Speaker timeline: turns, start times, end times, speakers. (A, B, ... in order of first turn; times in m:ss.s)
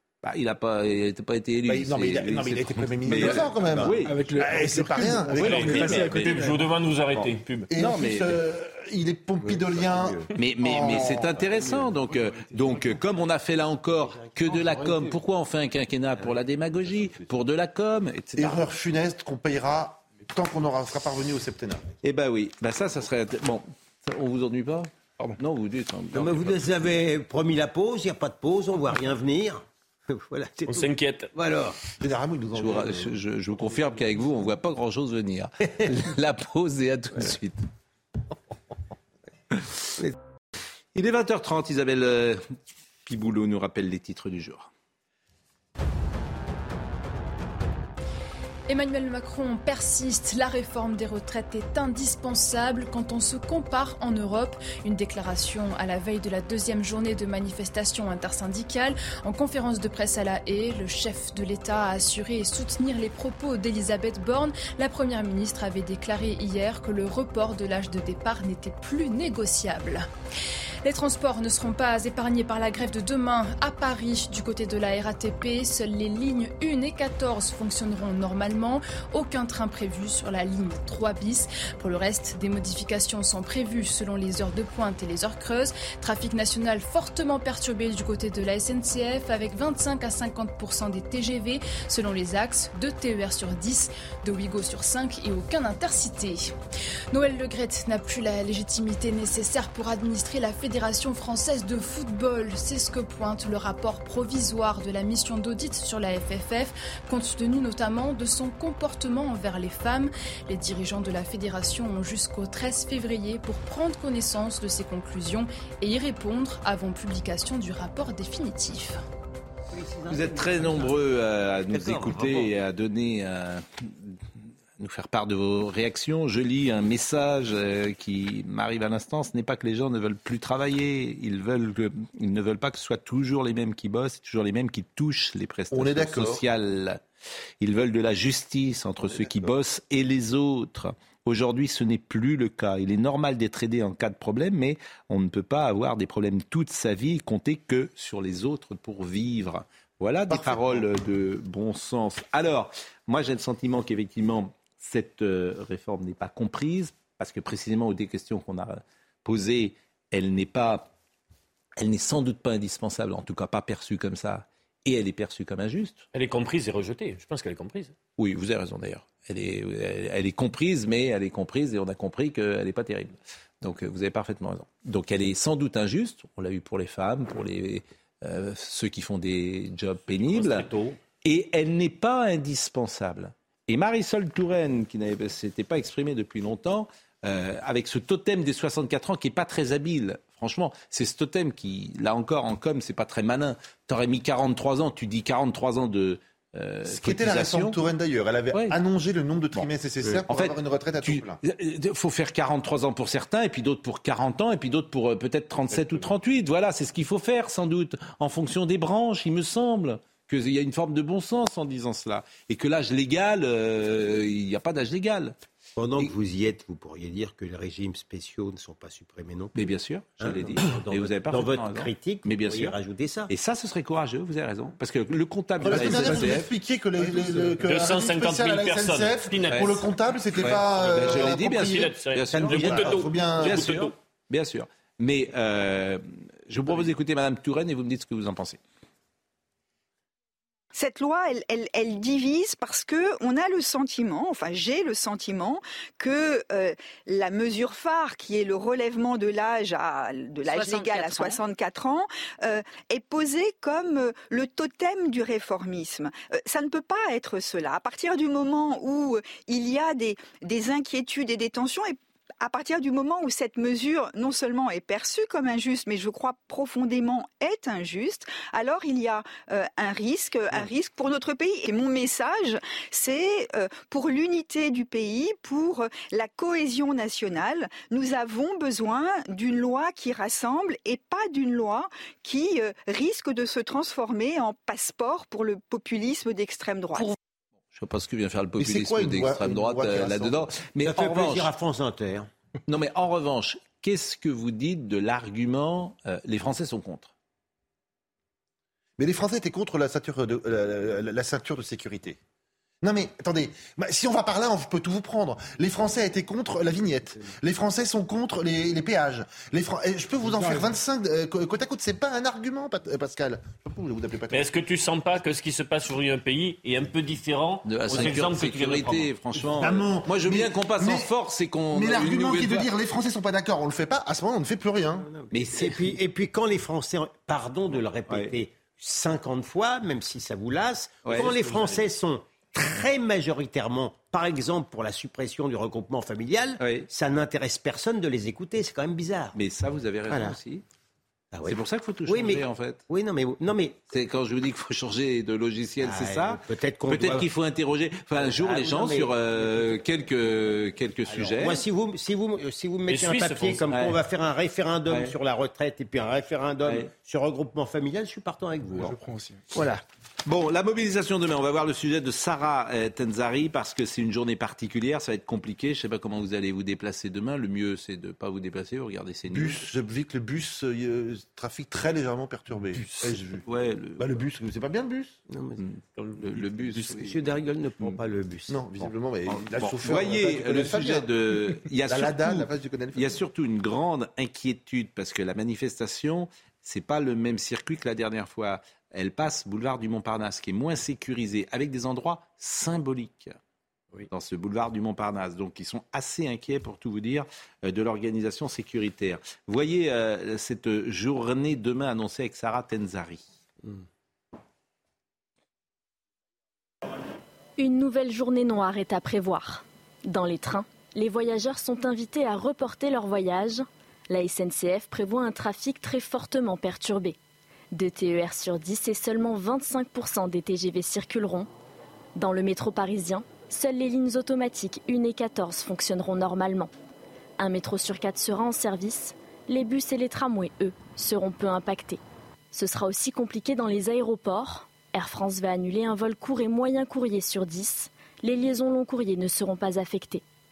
0:00.2-0:04.2 A
0:01.7-0:06.0 B
0:03.9-0:06.7 C
0:05.3-0:07.7 D
0:05.3-0:06.4 A
0:07.1-0:08.4 A
0:07.7-0:11.5 B
0:09.4-0:10.3 E
0:10.4-0:18.7 A
0:11.3-0:11.9 E
0:12.0-0:13.0 C
0:13.9-0:15.1 E
0:18.4-0:21.9 B
0:22.0-0:26.8 A
0:26.1-0:31.8 E
0:30.7-0:31.3 D
0:32.0-0:33.2 B
0:32.5-0:37.6 A
0:41.0-0:42.4 A
0:43.0-0:44.7 A
0:48.7-1:10.1 F
1:10.8-1:36.5 F
1:37.1-1:59.0 F
1:59.7-2:02.5 E
2:00.1-2:04.2 A
2:04.8-2:17.0 A
2:15.7-2:16.4 B
2:17.6-2:40.9 A
2:30.3-2:30.9 B
2:41.8-2:46.0 A
2:46.1-2:48.0 D
2:48.2-3:00.7 A
3:00.2-3:01.0 D
3:01.2-3:17.8 A
3:16.9-3:21.4 B
3:18.5-3:18.8 A
3:19.5-3:35.4 A
3:35.8-3:39.6 E
3:39.6-3:42.8 A
3:40.2-3:43.3 E
3:43.3-3:46.5 A
3:45.6-3:52.0 B
3:45.6-3:46.4 C
3:47.0-3:47.5 C
3:47.6-3:49.8 D
3:49.5-3:49.8 A
3:50.4-3:58.6 A
3:50.5-3:53.9 D
3:52.3-3:53.9 E
3:52.5-3:53.6 B
4:00.7-4:47.1 G
4:10.5-4:11.4 D
4:47.7-4:51.5 A
4:48.6-4:50.5 B
4:50.8-4:52.3 E
4:52.7-4:57.1 A
4:59.0-5:02.2 B
5:02.8-5:14.5 B
5:10.3-5:10.7 C
5:14.3-5:19.1 D
5:17.7-5:22.7 A
5:19.6-5:21.1 B
5:21.7-5:25.1 B
5:25.0-5:39.4 E
5:25.3-5:26.0 A
5:27.7-5:28.4 A
5:31.0-5:31.7 A
5:36.6-5:36.9 A
5:39.4-5:40.6 A
5:40.1-5:40.4 E
5:41.3-5:43.8 E
5:41.4-5:42.8 A
5:43.9-5:51.6 A
5:45.8-5:47.3 E
5:48.2-5:49.8 E
5:51.1-5:59.0 E
5:52.9-5:53.6 D
5:53.7-5:54.0 A
5:54.9-5:55.1 A
5:56.6-5:56.9 A
5:58.8-5:59.4 C
5:59.6-5:59.8 E
6:00.2-6:09.7 A
6:09.3-6:13.4 B
6:13.0-6:14.1 A
6:14.0-6:15.2 B
6:15.3-6:15.6 E
6:15.6-6:18.0 A
6:16.3-6:18.6 E
6:18.5-6:21.1 B
6:19.3-6:33.4 A
6:21.9-6:23.2 B
6:34.1-6:43.2 A
6:47.6-6:57.2 H
6:57.7-7:01.5 H
7:02.2-7:06.7 H
7:07.4-7:12.0 H
7:12.5-7:20.2 H